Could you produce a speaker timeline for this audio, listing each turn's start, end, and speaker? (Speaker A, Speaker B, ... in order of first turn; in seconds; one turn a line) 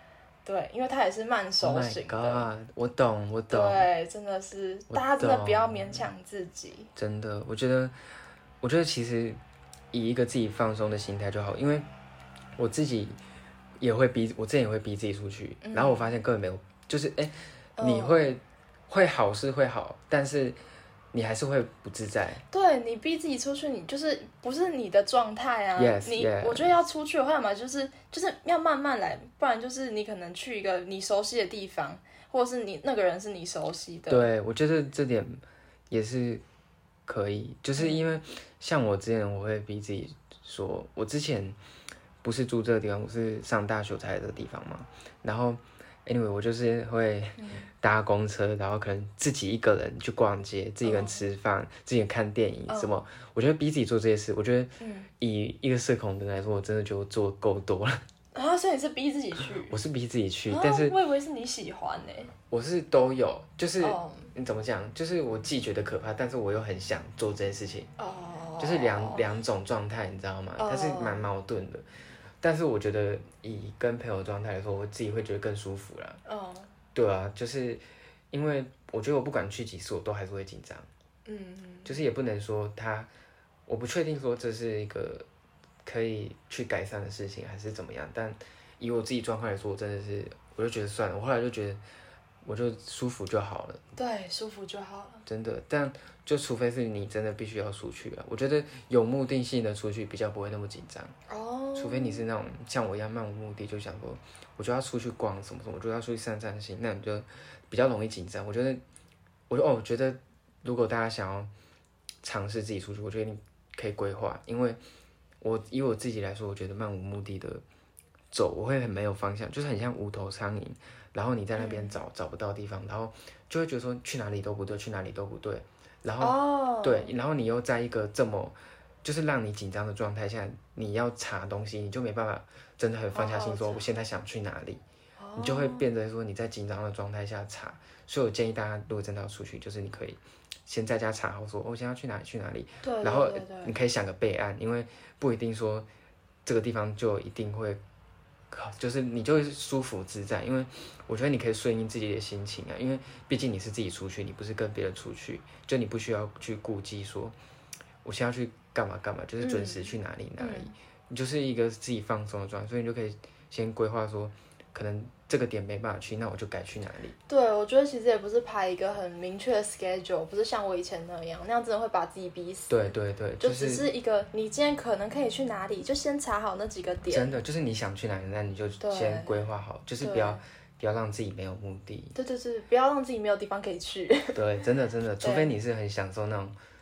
Speaker A: 0.5-2.5
Speaker B: 1.6-3.9
Speaker A: 3.5-6.9
Speaker B: 4.9-6.0
Speaker B: 7.0-7.9
Speaker B: 8.6-9.4
Speaker B: 9.9-11.8
Speaker B: 12.6-13.2
Speaker B: 13.8-20.6
Speaker A: 15.6-16.1
Speaker A: 17.8-18.2
Speaker B: 21.1-22.4
Speaker A: 22.5-34.3
Speaker B: 25.8-26.7
Speaker B: 34.1-36.4
Speaker B: 37.0-41.6
Speaker A: 37.8-38.2
Speaker B: 42.2-58.0
Speaker A: 47.4-47.7
Speaker A: 50.8-51.2
Speaker A: 52.7-53.0
Speaker A: 54.8-55.1
Speaker A: 58.3-59.8
Speaker B: 59.7-61.0
Speaker A: 60.5-62.3
Speaker B: 62.5-67.9
Speaker A: 63.8-64.3
Speaker A: 68.0-69.2
Speaker B: 68.6-71.8
Speaker A: 70.6-71.3
Speaker B: 72.4-76.2
Speaker A: 76.2-76.7
Speaker B: 76.9-80.9
Speaker A: 81.2-82.0
Speaker B: 81.8-83.1
Speaker B: 83.7-85.3
Speaker B: 85.8-91.8
Speaker B: 92.4-93.8
Speaker A: 94.0-95.2
Speaker B: 95.2-101.1
Speaker A: 101.3-102.2
Speaker B: 101.7-108.8
Speaker B: 109.5-111.5
Speaker B: 112.2-114.8
Speaker B: 115.4-117.6
Speaker B: 118.3-134.8
Speaker A: 121.6-122.0
Speaker A: 126.2-127.1
Speaker A: 133.1-133.8
Speaker A: 135.2-135.8
Speaker B: 135.3-145.8
Speaker A: 142.8-143.8
Speaker B: 146.4-147.8
Speaker B: 148.5-157.3
Speaker B: 158.0-167.1
Speaker A: 159.4-160.7
Speaker A: 167.3-172.7
Speaker B: 172.7-173.9
Speaker A: 173.4-177.3
Speaker B: 177.1-182.1
Speaker A: 178.8-179.3
Speaker A: 180.0-180.4
Speaker A: 182.1-184.4
Speaker B: 184.3-186.6
Speaker A: 185.2-185.5